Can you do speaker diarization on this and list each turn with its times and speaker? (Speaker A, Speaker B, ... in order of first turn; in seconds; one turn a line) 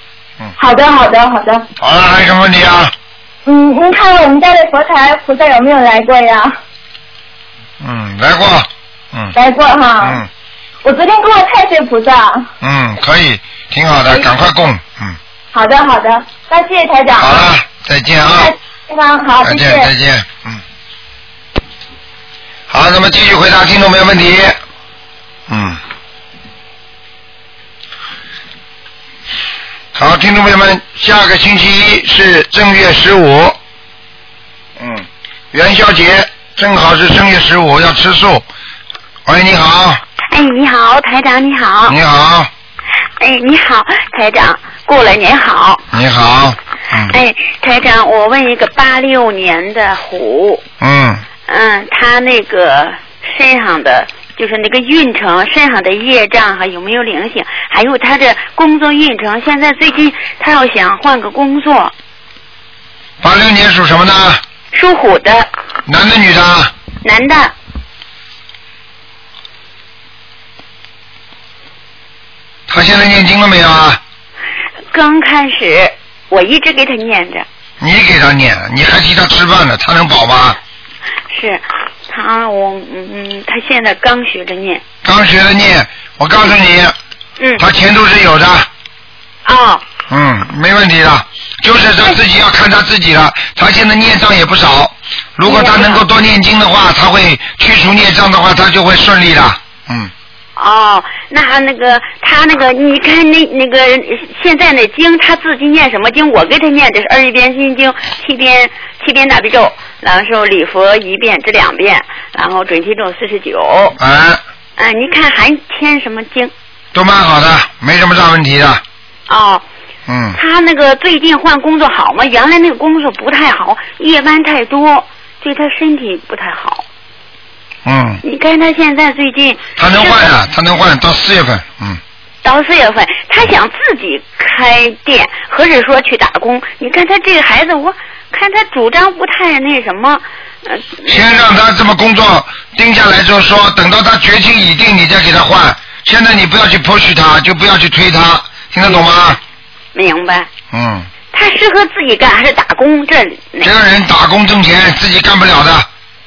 Speaker A: 0.6-1.7
Speaker B: 1.8-2.9
Speaker A: 3.5-6.6
Speaker B: 7.8-9.3
Speaker A: 9.3-10.3
Speaker B: 10.0-10.3
Speaker A: 10.8-12.5
Speaker B: 12.6-15.2
Speaker A: 15.5-17.5
Speaker B: 17.2-18.5
Speaker A: 18.3-19.9
Speaker B: 19.4-20.6
Speaker B: 22.7-24.6
Speaker B: 25.5-25.8
Speaker B: 29.9-33.6
Speaker B: 34.8-38.5
Speaker B: 39.3-40.0
Speaker C: 40.3-42.0
Speaker B: 41.9-42.5
Speaker C: 43.2-45.8
Speaker B: 45.9-47.1
Speaker C: 47.0-50.6
Speaker B: 50.8-51.2
Speaker C: 51.5-61.9
Speaker B: 63.2-64.4
Speaker C: 64.7-65.5
Speaker B: 65.9-66.7
Speaker C: 67.0-67.5
Speaker B: 72.7-74.0
Speaker C: 74.9-77.5
Speaker B: 77.8-80.6
Speaker C: 81.3-84.8
Speaker B: 85.0-87.0
Speaker B: 87.6-88.7
Speaker C: 89.5-89.8
Speaker B: 90.1-100.1
Speaker C: 95.4-96.0
Speaker C: 100.6-114.0
Speaker B: 114.0-114.4
Speaker C: 114.8-116.5
Speaker B: 116.9-118.8
Speaker C: 119.3-119.6
Speaker B: 120.1-120.4
Speaker C: 120.3-126.8
Speaker B: 127.9-128.2
Speaker C: 128.2-130.3
Speaker B: 129.8-132.0
Speaker C: 132.4-141.2
Speaker B: 141.1-149.4
Speaker C: 148.8-149.4
Speaker C: 149.9-150.5
Speaker B: 150.7-151.1
Speaker C: 151.3-153.7
Speaker B: 153.6-155.9